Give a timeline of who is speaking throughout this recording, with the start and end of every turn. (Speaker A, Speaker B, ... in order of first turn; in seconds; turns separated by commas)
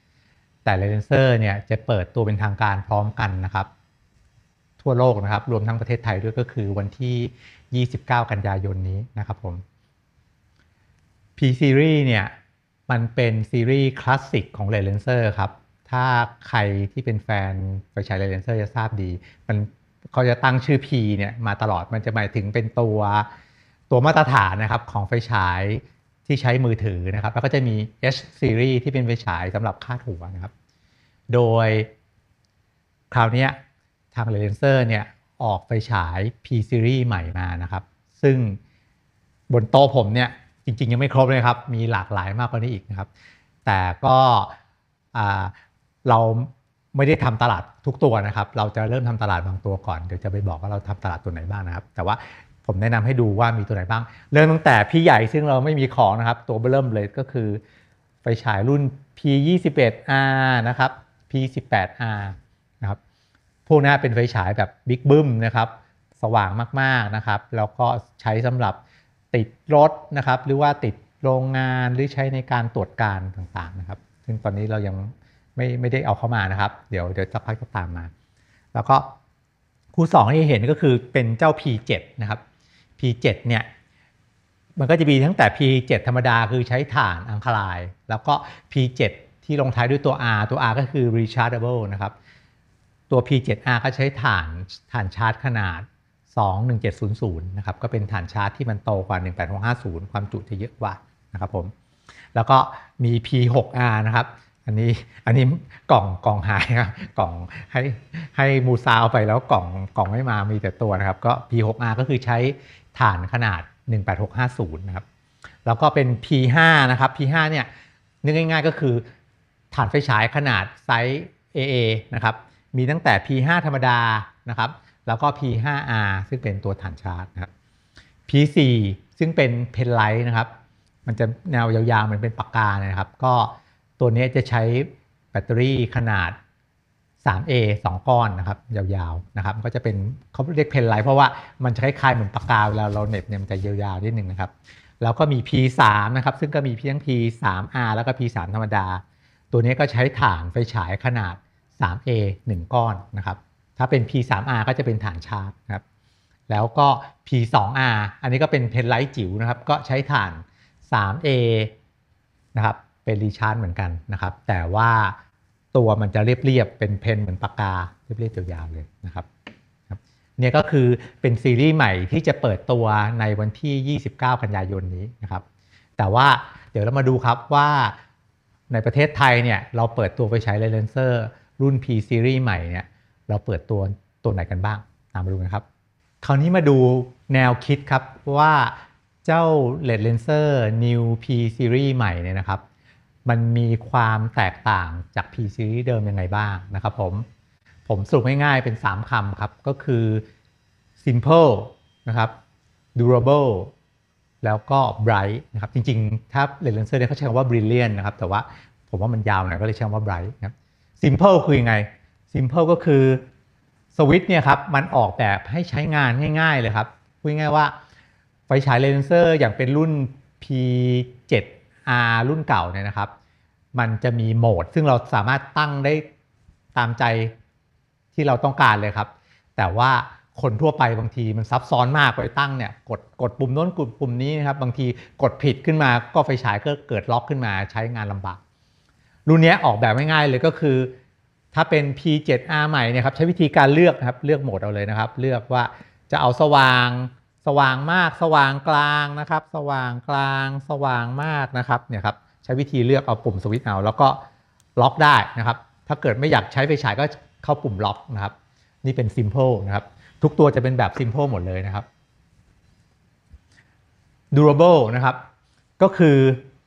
Speaker A: 0.7-3.7, Speaker A: 4.8-9.6, Speaker A: 11.4-12.3, Speaker A: 12.9-23.3, Speaker A: 23.9-30.5, Speaker A: 31.3-31.9, Speaker A: 33.1-33.6, Speaker A: 34.1-38.6, Speaker A: 39.5-43.1, Speaker A: 43.6-44.5, Speaker A: 45.1-45.5, Speaker A: 46.1-57.6, Speaker A: 58.2-63.0, Speaker A: 63.7-68.8, Speaker A: 69.3-78.1, Speaker A: 78.7-79.1, Speaker A: 79.9-82.4, Speaker A: 83.0-83.7, Speaker A: 84.8-92.1, Speaker A: 93.1-101.7, Speaker A: 102.3-115.0, Speaker A: 115.7-117.7, Speaker A: 118.2-119.0, Speaker A: 119.7-127.5, Speaker A: 128.3-130.5, Speaker A: 131.1-136.4, Speaker A: 137.2-155.8, Speaker A: 156.5-161.7, Speaker A: 162.6-165.2, Speaker A: 165.7-169.3, Speaker A: 169.9-175.4, Speaker A: 176.0-177.9, Speaker A: 178.7-185.6, Speaker A: 186.2-192.6, Speaker A: 193.3-197.3, Speaker A: 197.9-200.2, Speaker A: 201.0-202.3, Speaker A: 203.0-203.7, Speaker A: 204.4-213.2, Speaker A: 213.9-217.7, Speaker A: 218.5-223.1, Speaker A: 223.8-226.1, Speaker A: 226.8-227.3, Speaker A: 228.1-238.4, Speaker A: 239.3-240.9, Speaker A: 241.5-254.2, Speaker A: 254.8-261.9, Speaker A: 264.3-265.2, Speaker A: 265.8-266.4